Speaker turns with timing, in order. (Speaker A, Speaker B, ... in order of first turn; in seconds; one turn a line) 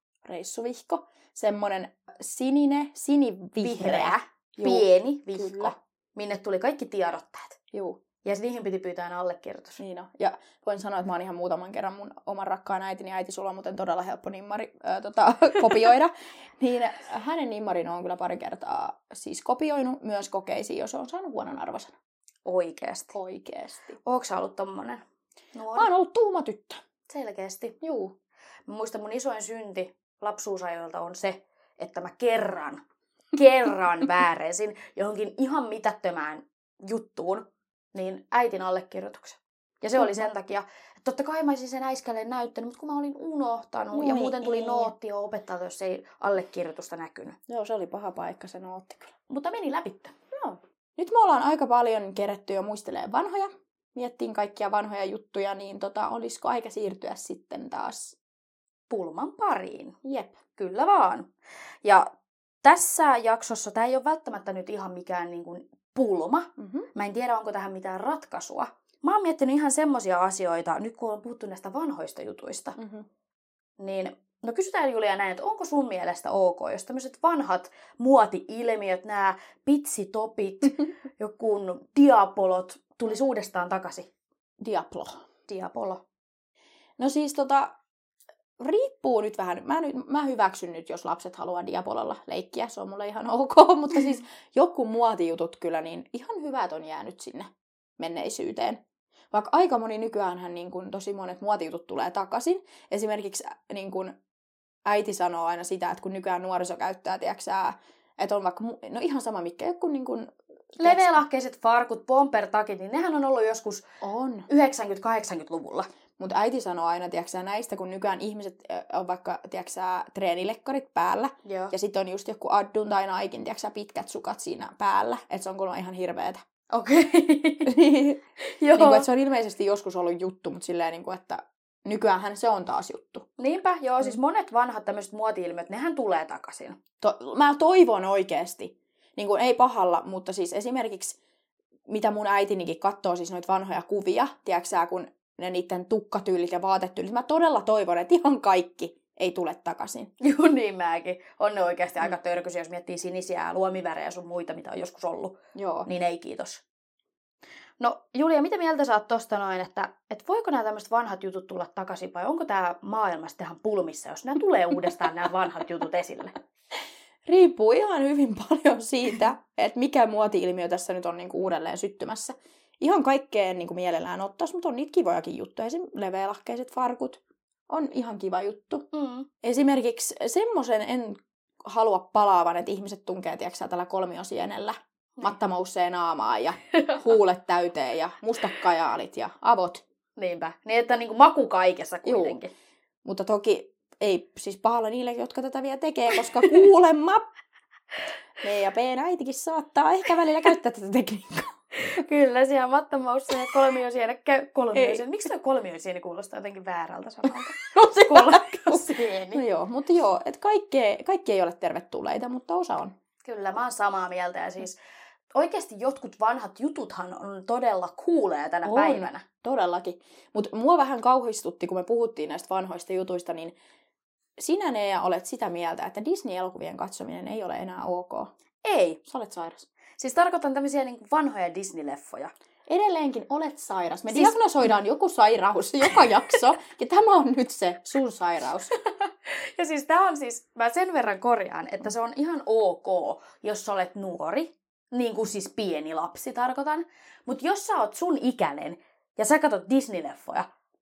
Speaker A: 0.2-5.7
Speaker B: 3.6-7.6
Speaker A: 7.7-8.0
Speaker B: 8.2-9.8
Speaker A: 9.8-21.9
Speaker B: 22.4-23.1
Speaker A: 23.1-24.0
Speaker B: 24.0-25.0
Speaker B: 25.6-25.9
Speaker A: 25.8-26.8
Speaker B: 27.1-27.8
Speaker A: 27.8-28.1
Speaker B: 28.7-32.8
Speaker B: 33.3-47.4
Speaker A: 40.0-40.3
Speaker A: 43.9-44.9
Speaker A: 47.5-49.1
Speaker B: 49.3-50.1
Speaker A: 50.3-58.2
Speaker B: 58.9-60.0
Speaker A: 60.0-60.4
Speaker B: 60.5-61.3
Speaker B: 61.8-62.1
Speaker B: 62.6-72.8
Speaker A: 66.6-66.9
Speaker A: 72.8-73.1
Speaker B: 73.8-84.1
Speaker A: 84.6-85.2
Speaker B: 85.5-86.0
Speaker A: 87.0-87.8
Speaker A: 88.6-104.2
Speaker A: 104.8-111.2
Speaker B: 110.8-113.9
Speaker A: 114.0-114.5
Speaker B: 114.5-115.9
Speaker A: 116.2-126.4
Speaker B: 121.5-121.7
Speaker B: 126.7-127.7
Speaker A: 127.7-128.2
Speaker B: 128.5-129.1
Speaker A: 128.7-133.3
Speaker B: 133.4-136.8
Speaker A: 137.0-141.2
Speaker A: 141.9-150.1
Speaker B: 150.2-156.6
Speaker A: 155.6-155.9
Speaker B: 157.8-166.3
Speaker A: 167.3-178.8
Speaker B: 178.9-179.3
Speaker A: 179.4-189.8
Speaker B: 190.2-192.5
Speaker A: 192.0-192.4
Speaker A: 193.1-197.2
Speaker A: 198.4-201.5
Speaker B: 201.8-209.4
Speaker A: 204.7-205.0
Speaker A: 208.1-212.9
Speaker B: 213.2-214.8
Speaker B: 215.3-219.2
Speaker A: 218.7-223.6
Speaker A: 224.4-228.3
Speaker B: 228.6-229.0
Speaker A: 229.1-229.7
Speaker B: 230.0-232.3
Speaker A: 232.7-238.7
Speaker B: 238.8-250.5